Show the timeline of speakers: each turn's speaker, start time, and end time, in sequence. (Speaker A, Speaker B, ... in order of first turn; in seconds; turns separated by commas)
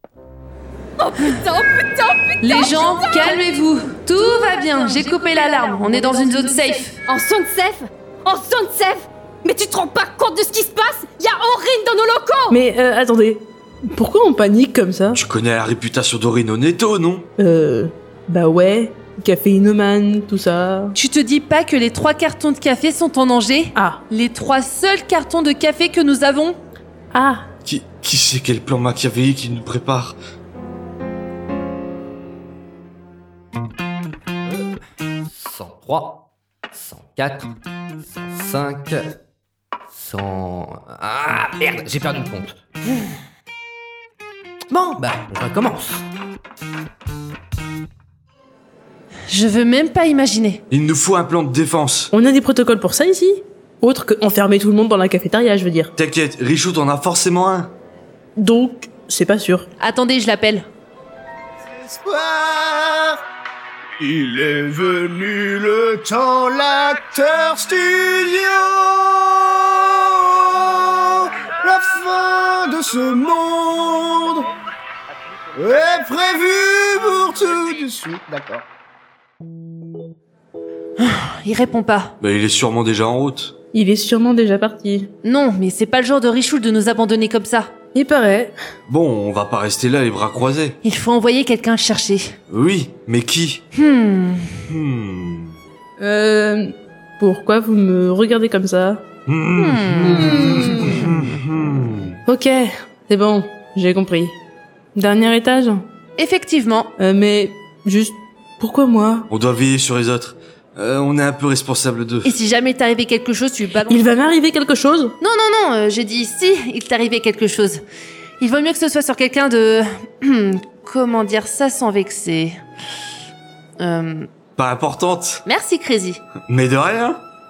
Speaker A: 1.0-3.5, Speaker B: 2.4-7.0, Speaker A: 4.6-12.5, Speaker C: 12.5-15.2, Speaker D: 15.1-17.3, Speaker C: 17.4-20.9, Speaker B: 20.9-26.6, Speaker C: 23.7-24.0, Speaker C: 27.1-27.4, Speaker D: 27.6-30.2, Speaker E: 34.5-34.8, Speaker E: 35.3-37.5, Speaker E: 38.0-39.0, Speaker E: 39.9-43.1, Speaker E: 44.7-46.0, Speaker B: 49.3-50.6, Speaker D: 50.7-52.1, Speaker C: 52.1-55.9, Speaker D: 56.0-57.7, Speaker C: 58.4-59.7, Speaker B: 59.8-60.6, Speaker F: 61.8-63.2, Speaker F: 64.0-74.5, Speaker F: 75.5-78.6, Speaker B: 81.0-82.1, Speaker D: 82.2-83.5, Speaker C: 83.7-85.1, Speaker B: 85.2-87.7, Speaker C: 87.9-88.5, Speaker D: 88.9-90.8, Speaker B: 90.8-92.3, Speaker D: 92.5-93.6, Speaker B: 93.8-94.5, Speaker D: 94.7-95.5, Speaker C: 96.0-99.0, Speaker D: 99.3-102.2, Speaker B: 99.6-100.6, Speaker C: 102.2-104.4, Speaker C: 104.9-105.8, Speaker B: 106.2-106.9, Speaker C: 107.0-109.3, Speaker D: 109.3-112.3, Speaker B: 112.2-114.0, Speaker C: 113.9-115.1, Speaker B: 115.2-117.8, Speaker B: 118.4-122.6, Speaker B: 123.8-124.3, Speaker D: 124.6-125.4, Speaker B: 125.5-126.2, Speaker D: 126.5-127.2